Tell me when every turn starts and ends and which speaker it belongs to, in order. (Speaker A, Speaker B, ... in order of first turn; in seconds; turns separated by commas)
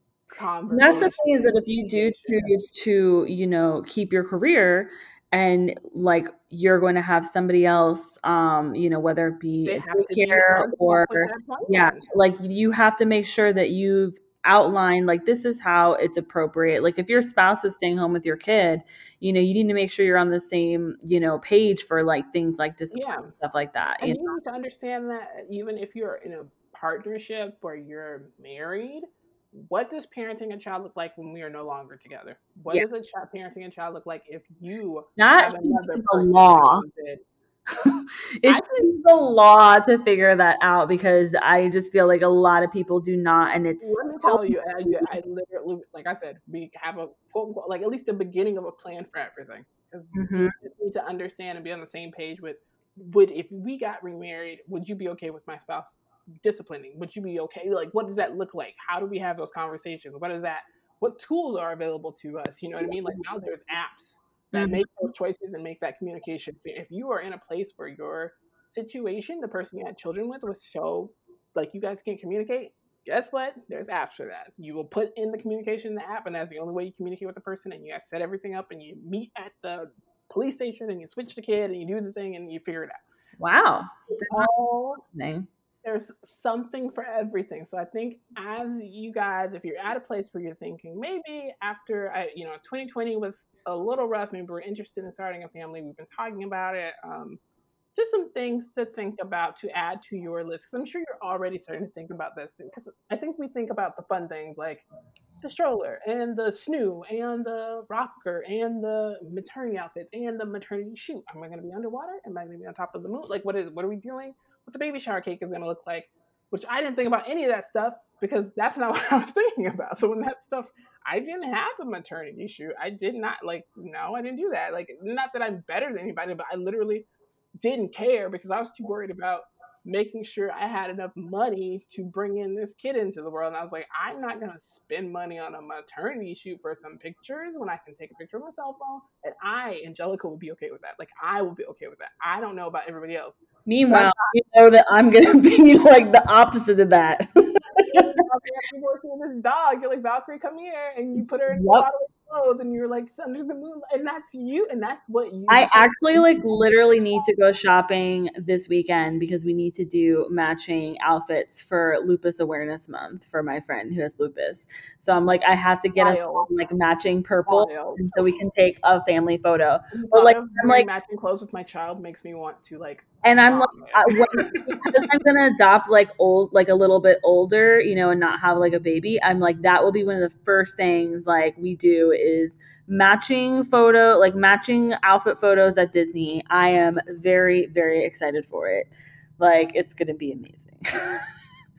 Speaker A: 0.3-2.6, Speaker B: 0.7-24.4, Speaker A: 9.7-12.1, Speaker A: 22.9-23.3, Speaker A: 24.0-37.2, Speaker B: 35.2-36.8, Speaker B: 37.8-45.2, Speaker A: 38.4-38.9, Speaker A: 43.8-83.0, Speaker B: 50.1-50.5, Speaker B: 62.8-63.1, Speaker B: 64.5-64.9, Speaker B: 83.4-84.5, Speaker A: 84.2-85.0, Speaker B: 85.1-85.5, Speaker A: 85.8-97.4, Speaker A: 98.0-104.8, Speaker A: 105.4-127.1, Speaker A: 127.6-144.3, Speaker B: 143.7-148.1, Speaker A: 147.9-156.3, Speaker B: 151.5-151.9, Speaker B: 155.5-170.9, Speaker A: 166.0-166.5, Speaker A: 167.4-168.2, Speaker A: 169.9-174.9, Speaker B: 173.2-191.2